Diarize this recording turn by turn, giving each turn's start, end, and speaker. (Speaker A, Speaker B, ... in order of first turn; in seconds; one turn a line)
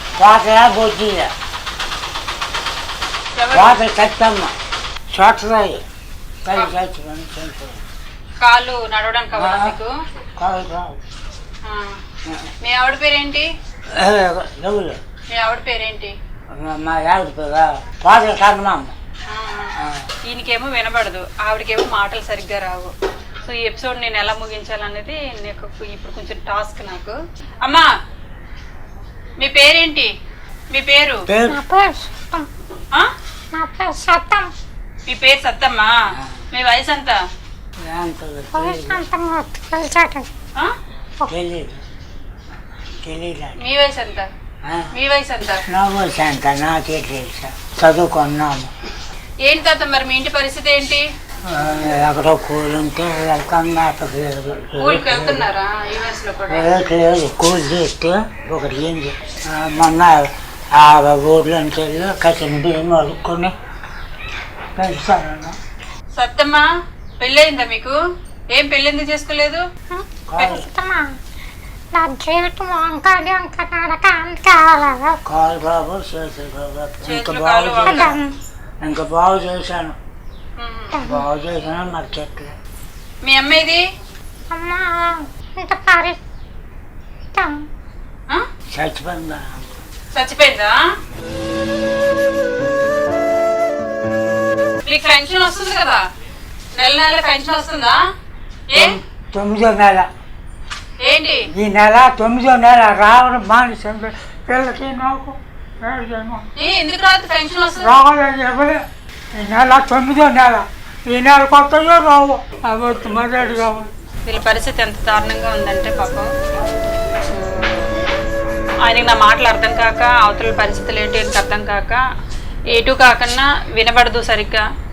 Speaker A: 0.2-1.3
Speaker B: 3.3-3.8
Speaker A: 3.5-4.5
Speaker A: 5.1-5.8
Speaker A: 6.4-7.8
Speaker B: 8.4-9.9
Speaker A: 9.3-9.8
Speaker A: 10.4-11.0
Speaker B: 11.6-12.0
Speaker A: 12.2-12.5
Speaker B: 12.6-13.5
Speaker A: 13.9-15.0
Speaker B: 15.3-16.1
Speaker A: 16.5-18.9
Speaker B: 19.3-19.7
Speaker A: 19.8-20.1
Speaker B: 20.2-27.9
Speaker B: 29.4-30.1
Speaker B: 30.7-31.2
Speaker A: 31.3-31.6
Speaker C: 31.5-32.5
Speaker C: 33.5-34.5
Speaker B: 35.1-35.9
Speaker A: 36.2-36.4
Speaker B: 36.5-37.2
Speaker A: 37.9-39.0
Speaker C: 38.5-40.3
Speaker A: 41.2-41.8
Speaker A: 43.0-43.6
Speaker B: 43.6-44.3
Speaker A: 44.6-44.9
Speaker B: 44.9-45.6
Speaker A: 45.7-48.7
Speaker B: 49.4-51.0
Speaker A: 51.4-55.5
Speaker B: 54.8-56.7
Speaker A: 56.5-63.5
Speaker A: 64.7-65.6
Speaker B: 66.1-66.6
Speaker B: 67.2-68.0
Speaker B: 68.5-69.7
Speaker A: 70.3-70.7
Speaker C: 70.4-71.2
Speaker C: 71.9-75.2
Speaker A: 75.2-78.2
Speaker B: 77.0-78.2
Speaker C: 77.8-78.3
Speaker A: 78.8-80.0
Speaker B: 80.6-81.0
Speaker C: 80.9-81.2
Speaker A: 81.0-82.5
Speaker B: 83.2-83.8
Speaker C: 84.5-86.2
Speaker C: 87.3-87.7
Speaker A: 88.7-89.8
Speaker B: 90.1-90.8
Speaker B: 94.8-96.0
Speaker B: 96.8-98.0
Speaker B: 98.7-99.0
Speaker A: 98.7-100.1
Speaker B: 101.0-101.5
Speaker A: 101.5-106.4
Speaker B: 106.5-108.0
Speaker A: 107.8-108.8
Speaker A: 109.3-113.9
Speaker B: 114.3-116.3
Speaker B: 117.3-118.0
Speaker B: 118.8-122.0
Speaker B: 122.7-124.6